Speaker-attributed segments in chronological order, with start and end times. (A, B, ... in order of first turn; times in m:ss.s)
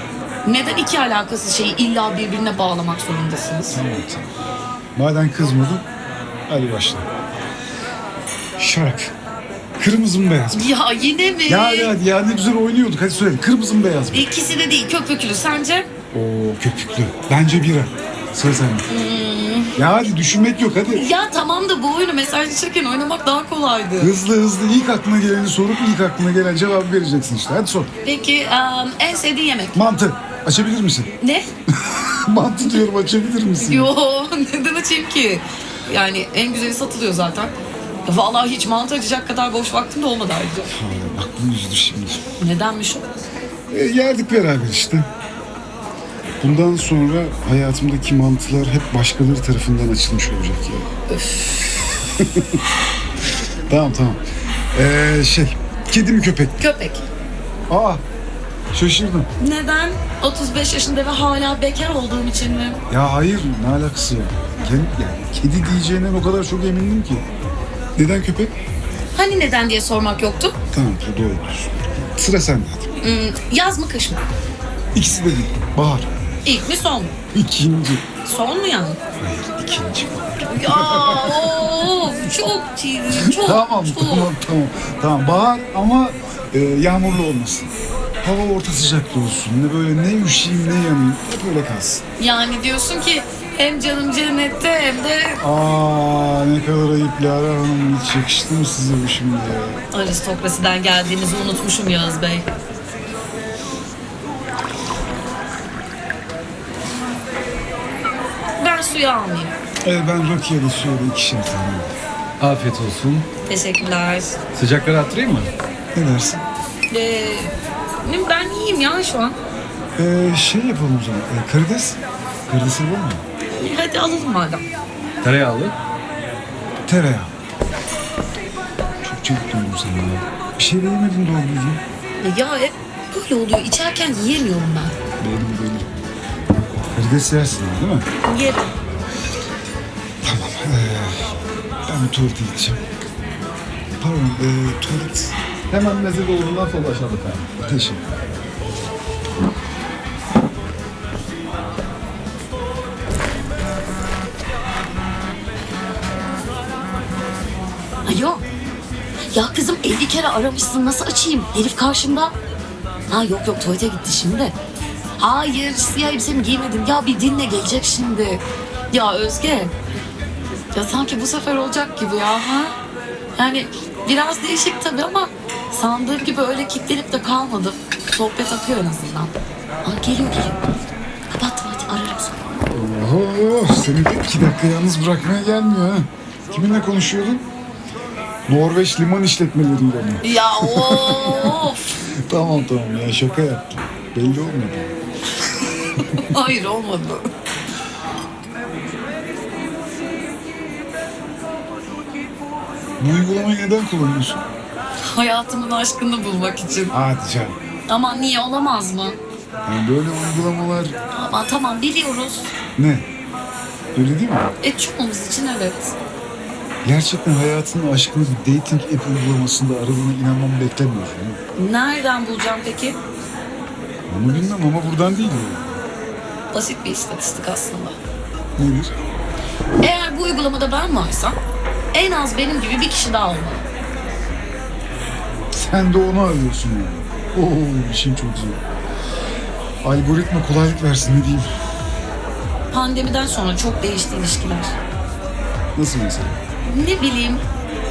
0:00.4-0:03.8 A
0:03.7-0:04.3 B
0:04.9-0:05.8 B
0:06.5-0:07.1 B
0:08.6-0:09.1 B
0:09.8-0:10.7 B
0:10.5-0:11.9 A
0:11.5-0:14.2 B
0:14.1-0:15.9 A
0:16.1-0:18.8 B
0:18.9-0:19.8 A
0:19.8-0:21.0 B
0:20.9-0:24.1 A
0:24.0-0:27.9 B
0:28.0-0:29.8 A
0:29.7-0:31.1 B
0:31.2-0:31.5 A
0:31.8-0:33.9 B
0:33.6-0:37.5 A
0:38.0-0:40.7 A
0:40.7-0:42.2 B
0:42.4-0:43.1 A
0:43.7-0:45.1 B
0:46.4-0:50.9 B
0:51.1-0:52.0 A
0:52.2-0:52.6 B
0:53.7-0:54.2 B
0:54.7-0:56.6 B
0:56.6-0:57.0 A
0:57.7-0:58.0 B
0:58.7-0:59.3 B
0:59.4-1:02.8 A
1:02.9-1:07.2 B
1:08.0-1:08.5 B
1:09.1-1:10.6 A
1:10.7-1:13.0 B
1:13.0-1:14.2 A
1:14.9-1:16.1 B
1:16.4-1:17.1 A
1:17.3-1:18.0 B
1:18.2-1:19.0 A
1:19.2-1:22.1 B
1:20.5-1:24.3 A
1:23.1-1:27.7 B
1:28.2-1:32.0 B
1:32.2-1:35.4 A
1:35.4-1:39.8 B
1:39.9-1:42.4 A
1:48.6-1:49.5 A
1:49.8-1:52.0 B
1:52.4-1:53.3 C
1:53.4-1:54.4 A
1:54.5-1:55.5 C
1:55.9-1:56.4 B
1:56.9-1:59.4 A
2:00.0-2:03.2 B
2:03.6-2:04.6 A
2:05.2-2:05.8 C
2:06.8-2:07.3 B
2:09.0-2:11.8 B
2:12.2-2:15.0 A
2:15.2-2:15.9 B
2:16.9-2:18.0 B
2:18.2-2:18.7 A
2:20.2-2:22.8 B
2:24.0-2:25.4 B
2:25.7-2:27.5 C
2:27.6-2:28.1 B
2:38.0-2:38.4 A
2:39.3-2:42.3 A
2:43.1-2:44.5 A
2:45.2-2:49.7 A
2:50.7-2:52.7 A
2:53.4-3:00.6 A
3:01.3-3:02.5 A
3:02.7-3:07.4 B
3:08.5-3:14.9 B
3:10.2-3:11.9 A
3:16.0-3:17.3 A
3:23.0-3:24.4 B
3:25.0-3:26.9 A
3:26.9-3:27.6 B
3:27.9-3:29.2 A
3:29.6-3:31.0 B
3:31.1-3:32.5 A
3:32.8-3:33.1 B
3:33.9-3:34.5 B
3:34.6-3:35.9 A
3:36.8-3:41.4 B
3:41.6-3:43.0 A
3:44.1-3:45.8 B
3:46.5-3:48.0 A
3:48.6-3:48.9 B
3:49.8-3:51.4 A
3:51.9-3:53.6 A
3:55.5-3:58.6 B
3:59.8-4:01.5 B
4:02.7-4:04.7 A
4:05.7-4:06.4 B
4:06.6-4:07.4 A